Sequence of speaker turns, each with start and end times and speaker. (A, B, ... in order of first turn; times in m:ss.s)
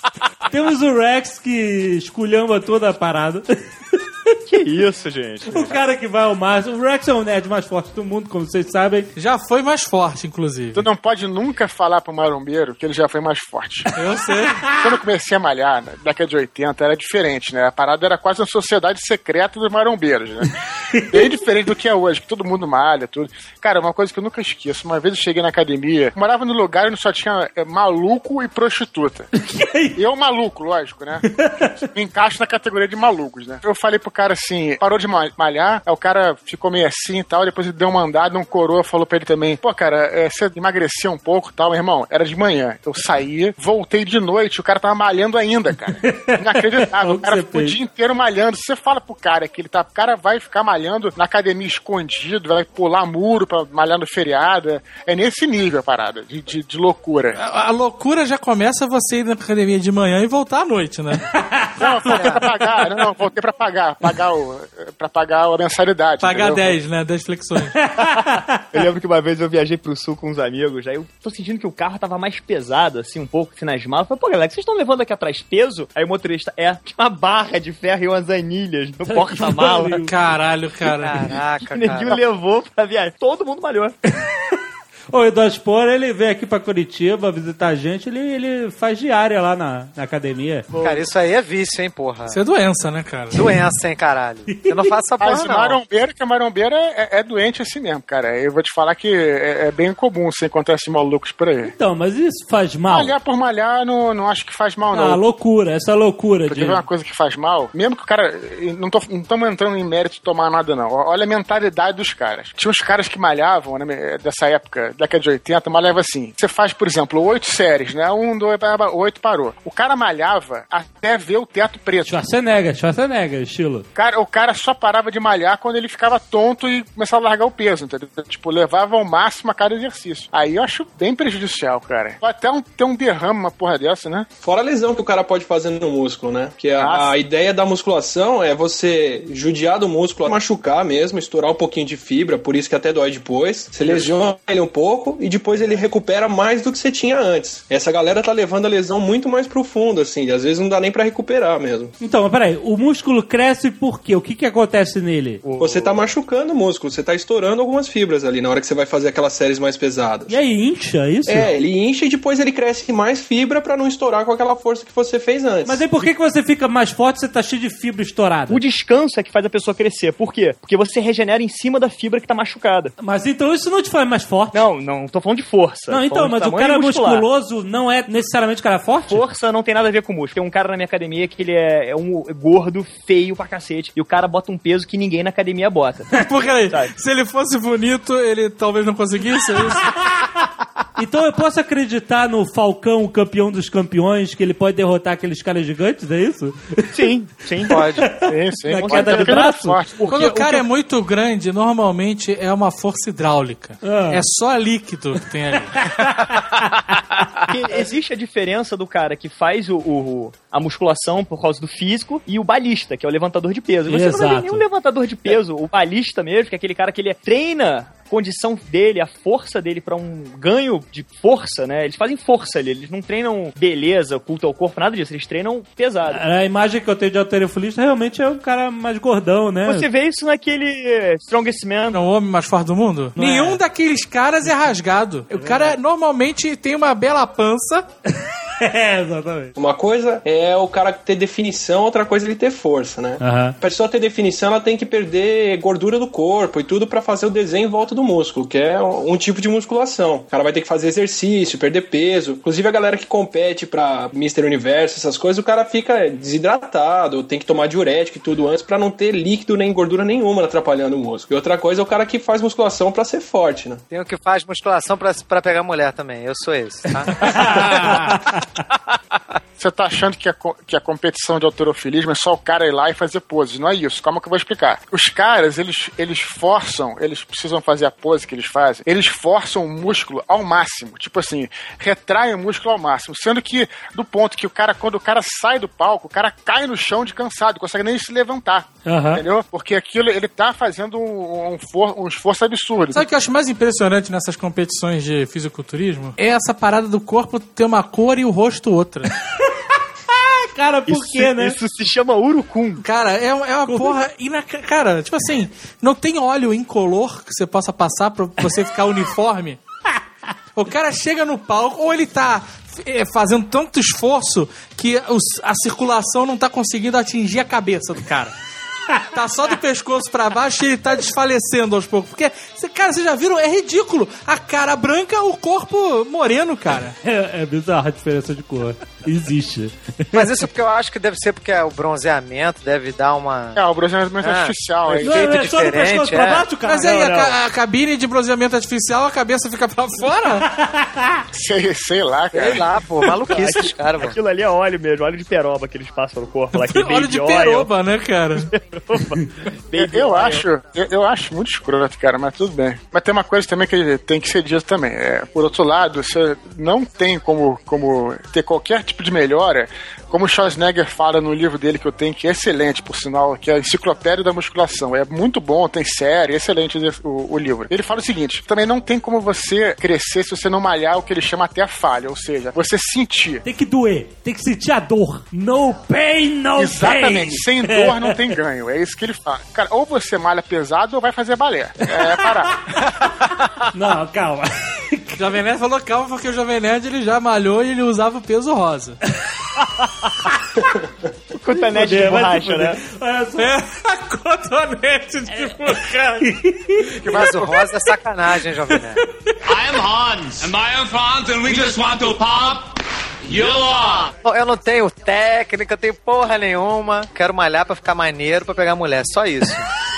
0:00.5-0:04.4 A
0:04.5-0:05.8 B
0:05.5-0:09.1 A
0:09.2-0:10.8 C
0:10.7-0:13.9 D
0:14.0-0:14.6 C
0:14.7-0:29.3 D
0:20.9-0:21.2 A
0:29.5-0:30.0 A
0:29.9-0:57.4 D
0:31.3-0:31.7 A
0:46.1-0:47.8 A
0:57.4-1:01.3 C
1:01.3-1:01.8 A
1:01.8-1:06.8 D
1:02.1-1:02.4 E
1:06.2-1:07.8 C
1:07.8-1:08.6 A
1:08.7-1:20.0 B
1:19.0-1:20.1 A
1:20.0-1:21.4 C
1:20.8-1:22.2 E
1:21.6-1:24.0 B
1:25.1-1:30.7 A
1:30.7-1:31.1 B
1:30.7-1:32.4 E
1:32.3-1:33.6 C
1:33.3-1:35.8 E
1:34.5-1:34.9 A
1:35.2-1:41.7 D
1:41.6-1:43.2 A
1:42.9-1:45.2 D
1:44.9-1:46.8 A
1:46.5-2:02.2 D
2:02.1-2:03.9 A
2:04.0-2:14.3 D
2:14.4-2:31.9 F
2:16.8-2:17.1 D
2:32.0-2:35.4 A
2:35.4-2:36.0 B
2:35.6-2:40.4 F
2:40.3-2:41.5 A
2:41.3-2:45.8 F
2:45.7-2:48.6 A
2:48.5-2:52.9 B
2:53.0-2:54.6 A
2:54.5-2:57.3 B
2:55.9-2:59.2 A
2:59.1-3:06.9 B
3:06.1-3:10.1 C
3:11.0-3:16.9 A
3:16.9-3:18.1 B
3:17.7-3:18.1 E
3:18.0-3:19.8 A
3:18.2-3:20.6 D
3:18.7-3:19.6 B
3:20.1-3:25.9 C
3:23.8-3:24.2 A
3:26.0-3:26.7 A
3:27.5-3:46.2 B
3:33.9-3:34.6 A
3:46.1-3:49.9 A
3:49.6-3:52.0 B
3:51.9-3:57.9 C
3:53.2-3:53.6 A
3:55.4-3:55.7 A
3:58.1-3:59.5 A
3:59.6-4:23.8 F
4:03.2-4:03.6 A
4:23.9-4:28.0 E
4:27.2-4:28.4 A
4:27.8-4:28.1 C
4:28.7-4:29.0 E
4:29.6-4:53.0 D
4:48.9-4:49.2 A
4:52.9-4:59.1 C
5:00.1-5:01.6 A
5:00.9-5:02.8 B
5:02.8-5:09.6 C
5:03.7-5:04.0 A
5:10.6-5:18.3 C
5:19.0-5:27.0 C
5:27.0-5:30.3 A
5:30.1-5:33.6 E
5:33.6-5:35.2 D
5:34.2-5:36.5 E
5:35.0-5:37.2 A
5:36.6-5:40.4 C
5:36.8-5:37.3 B
5:40.4-5:41.2 A
5:41.3-5:42.6 D
5:42.3-5:44.2 E
5:43.3-5:47.7 B
5:46.5-5:48.5 C
5:48.4-5:50.4 B
5:49.8-6:13.4 D
6:13.4-6:18.4 A
6:16.6-6:22.7 D
6:22.0-6:22.3 A
6:23.7-6:25.2 A
6:25.2-6:29.0 C
6:29.6-6:30.4 A
6:30.6-6:30.9 F
6:31.3-6:32.8 B
6:31.5-6:33.5 A
6:33.4-6:36.8 C
6:35.3-6:36.9 A
6:37.0-6:37.7 D
6:37.1-6:39.0 E
6:39.4-6:42.7 G
6:43.2-6:44.1 G
6:44.2-6:49.7 E